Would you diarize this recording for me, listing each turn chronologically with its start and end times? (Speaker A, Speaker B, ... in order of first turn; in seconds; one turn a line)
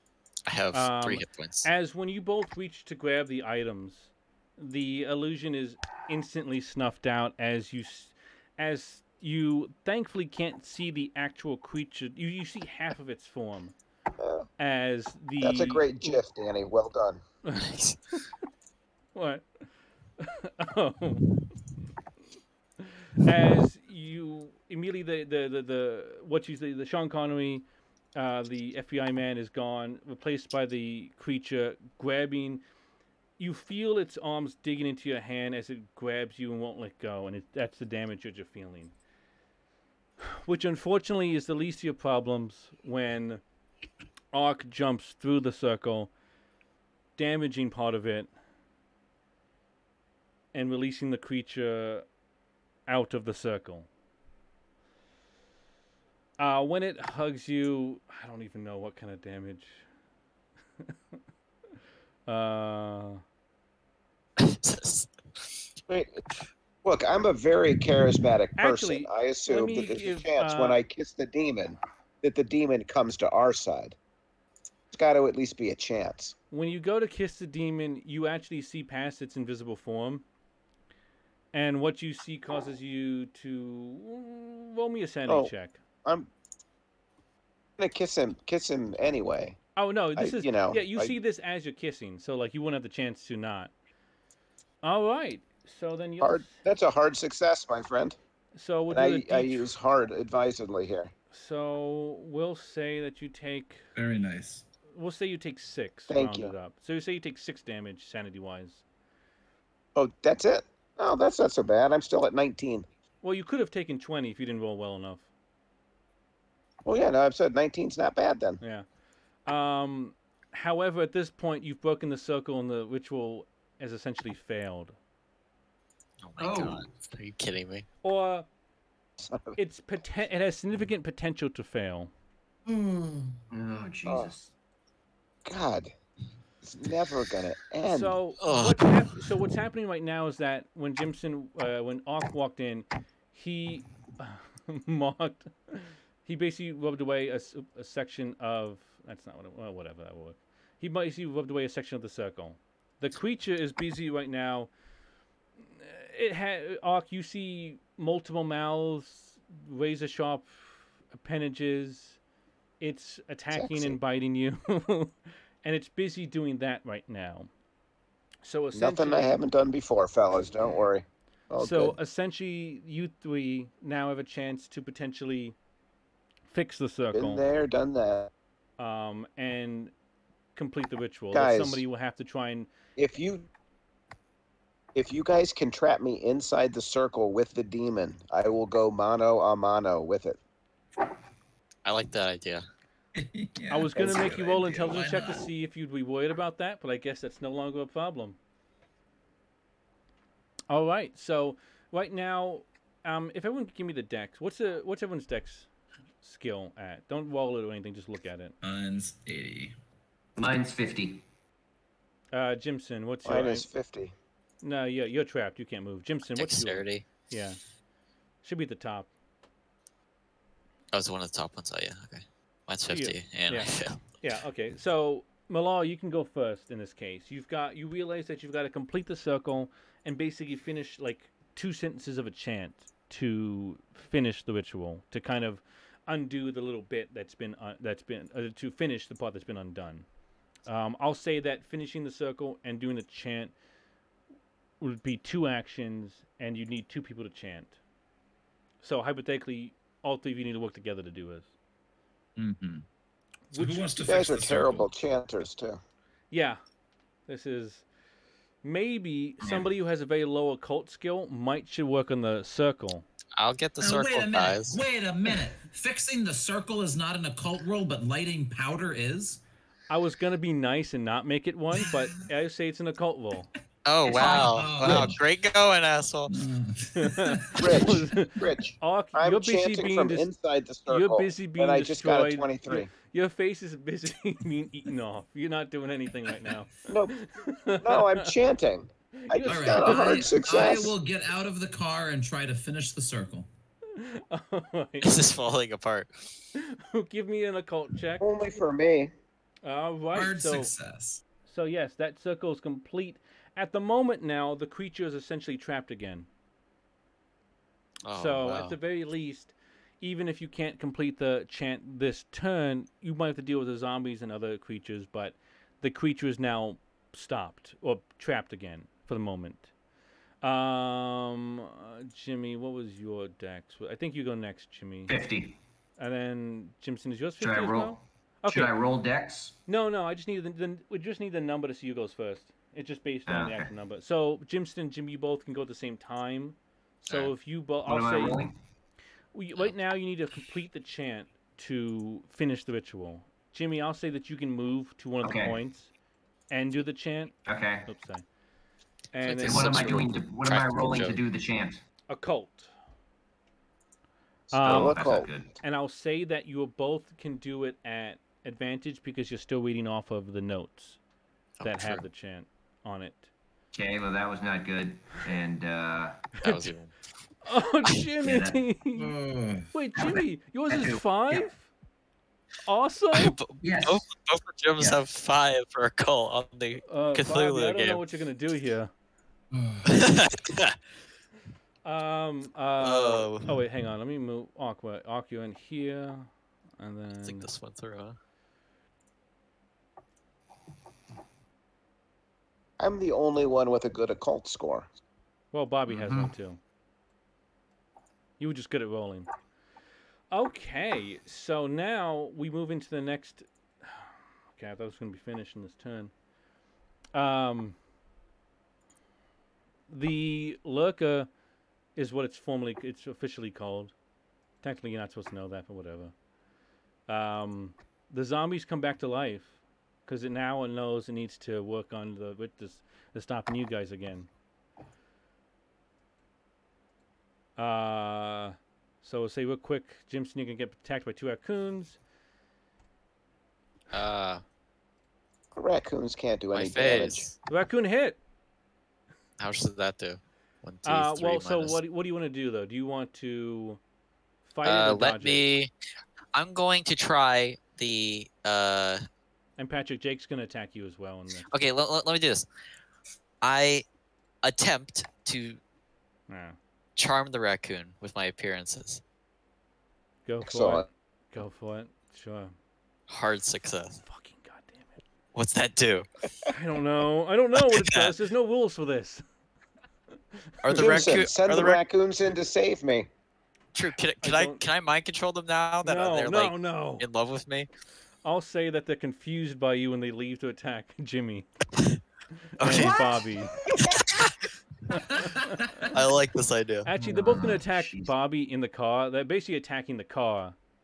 Speaker A: 0.5-1.7
Speaker B: 0.7-13.7
Speaker C: 14.2-14.4
Speaker B: 14.6-16.2
Speaker C: 15.4-17.2
Speaker B: 17.4-17.7
Speaker A: 17.6-18.0
Speaker B: 19.1-19.4
Speaker B: 20.2-21.3
Speaker B: 22.8-27.6
Speaker B: 28.1-32.6
Speaker B: 33.4-38.9
Speaker B: 40.2-43.4
Speaker B: 44.3-46.1
Speaker B: 47.2-48.3
Speaker B: 50.5-52.0
Speaker B: 52.9-53.9
Speaker B: 56.4-59.8
Speaker B: 62.3-63.2
Speaker A: 64.4-65.7
Speaker C: 65.9-66.2
Speaker C: 66.8-74.0
Speaker B: 68.6-70.8
Speaker C: 74.9-76.3
Speaker B: 76.5-80.2
Speaker B: 81.5-85.8
Speaker C: 85.3-85.5
Speaker C: 86.0-86.3
Speaker C: 87.8-89.6
Speaker B: 89.8-93.7
Speaker C: 90.2-91.1
Speaker B: 94.8-96.5
Speaker C: 96.2-98.2
Speaker B: 98.5-99.7
Speaker C: 98.9-101.1
Speaker B: 101.3-103.8
Speaker D: 103.9-104.6
Speaker B: 104.9-108.8
Speaker C: 106.1-106.5
Speaker C: 109.9-112.8
Speaker B: 113.2-115.3
Speaker C: 116.8-118.6
Speaker B: 119.5-125.0
Speaker A: 126.2-127.8
Speaker E: 126.4-126.8
Speaker B: 128.0-128.5
Speaker C: 129.2-129.6
Speaker B: 129.6-132.1
Speaker E: 132.7-134.5
Speaker C: 134.1-134.3
Speaker C: 135.4-135.9
Speaker C: 136.6-138.2
Speaker B: 137.8-154.7
Speaker A: 138.4-139.2
Speaker B: 155.7-162.2
Speaker B: 162.8-167.5
Speaker C: 163.5-164.0
Speaker B: 168.4-169.4
Speaker C: 168.7-171.9
Speaker B: 171.6-175.6
Speaker B: 176.5-177.4
Speaker C: 177.1-178.3
Speaker B: 178.8-179.9
Speaker B: 180.6-182.7
Speaker C: 181.3-181.8
Speaker C: 183.0-183.5
Speaker C: 184.9-190.4
Speaker A: 191.8-192.6
Speaker D: 193.1-195.5
Speaker B: 193.7-198.4
Speaker C: 194.0-194.3
Speaker B: 200.7-205.7
Speaker B: 206.2-208.6
Speaker D: 208.6-209.7
Speaker E: 210.4-211.2
Speaker B: 212.3-213.7
Speaker C: 213.2-214.1
Speaker B: 214.6-217.6
Speaker A: 216.3-217.1
Speaker B: 218.4-219.1
Speaker A: 220.9-224.0
Speaker B: 222.9-240.1
Speaker B: 240.7-243.5
Speaker B: 244.8-247.8
Speaker B: 248.8-251.5
Speaker D: 252.3-252.8
Speaker B: 253.5-254.0
Speaker D: 253.5-254.9
Speaker C: 254.0-255.8
Speaker B: 256.3-256.6
Speaker B: 257.3-257.8
Speaker B: 258.6-263.1
Speaker E: 259.4-259.7
Speaker A: 263.4-264.8
Speaker D: 263.8-269.4
Speaker B: 269.9-273.5
Speaker A: 273.8-276.4
Speaker D: 274.1-275.2
Speaker E: 274.1-275.0
Speaker D: 276.3-277.8
Speaker B: 276.9-280.3
Speaker C: 277.6-282.9
Speaker B: 280.9-288.3
Speaker C: 286.9-287.1
Speaker C: 287.8-290.9
Speaker B: 289.2-290.6
Speaker D: 289.4-293.5
Speaker B: 293.9-295.2
Speaker A: 295.0-296.3
Speaker B: 296.5-298.3
Speaker C: 298.2-299.1
Speaker B: 299.6-300.7
Speaker D: 300.1-301.2
Speaker B: 301.4-306.3
Speaker A: 308.1-308.8
Speaker B: 308.1-319.7
Speaker B: 320.4-325.1
Speaker E: 325.1-325.6
Speaker B: 326.0-328.7
Speaker E: 327.4-329.6
Speaker B: 329.7-338.4
Speaker E: 333.3-333.7
Speaker E: 337.8-338.5
Speaker B: 339.3-345.9
Speaker E: 345.2-345.6
Speaker B: 346.5-347.3
Speaker E: 347.4-347.9
Speaker B: 347.8-348.2
Speaker B: 349.1-350.1
Speaker A: 349.2-351.2
Speaker E: 349.4-351.8
Speaker B: 352.1-352.7
Speaker B: 354.5-355.0
Speaker E: 354.6-355.5
Speaker C: 354.6-355.3
Speaker B: 355.6-361.0
Speaker A: 361.6-362.0
Speaker B: 361.6-363.3
Speaker E: 363.7-366.3
Speaker A: 366.4-366.9
Speaker B: 367.4-369.1
Speaker E: 368.2-368.6
Speaker D: 369.0-369.7
Speaker B: 369.7-371.7
Speaker E: 370.0-371.5
Speaker B: 372.6-373.4
Speaker A: 373.1-378.0
Speaker E: 373.6-374.1
Speaker B: 376.9-378.9
Speaker D: 379.5-380.1
Speaker A: 379.8-380.8
Speaker B: 381.8-387.5
Speaker A: 382.8-383.6
Speaker A: 387.2-388.2
Speaker C: 392.8-394.9
Speaker B: 395.5-396.6
Speaker E: 395.9-396.3
Speaker B: 398.4-399.3
Speaker B: 400.3-406.1
Speaker B: 407.1-407.8
Speaker B: 409.9-411.3
Speaker B: 411.9-413.9
Speaker B: 414.6-416.1
Speaker B: 417.1-419.6
Speaker B: 420.1-424.3
Speaker B: 427.6-432.0
Speaker A: 433.9-434.4
Speaker C: 435.5-437.3
Speaker A: 436.5-437.3
Speaker B: 437.5-438.2
Speaker A: 439.4-441.8
Speaker B: 440.8-443.8
Speaker B: 444.4-445.4
Speaker A: 444.6-445.7
Speaker A: 446.3-449.0
Speaker B: 449.6-451.5
Speaker A: 451.5-452.4
Speaker A: 453.4-453.8
Speaker A: 454.4-455.6
Speaker B: 456.3-456.6
Speaker A: 456.9-459.0
Speaker B: 460.3-462.5
Speaker C: 460.4-460.9
Speaker A: 463.1-464.0
Speaker B: 464.0-465.0
Speaker A: 465.3-466.1
Speaker B: 466.5-469.2
Speaker A: 467.6-468.1
Speaker B: 470.6-470.9
Speaker A: 470.6-471.8
Speaker C: 470.7-473.1
Speaker A: 473.7-477.7
Speaker B: 474.2-474.6
Speaker B: 475.8-477.1
Speaker B: 478.2-481.5
Speaker A: 482.6-483.2
Speaker B: 482.6-483.6
Speaker A: 483.8-484.4
Speaker B: 484.9-485.9
Speaker D: 484.9-485.9
Speaker A: 485.9-486.9
Speaker B: 486.8-490.6
Speaker E: 487.0-488.1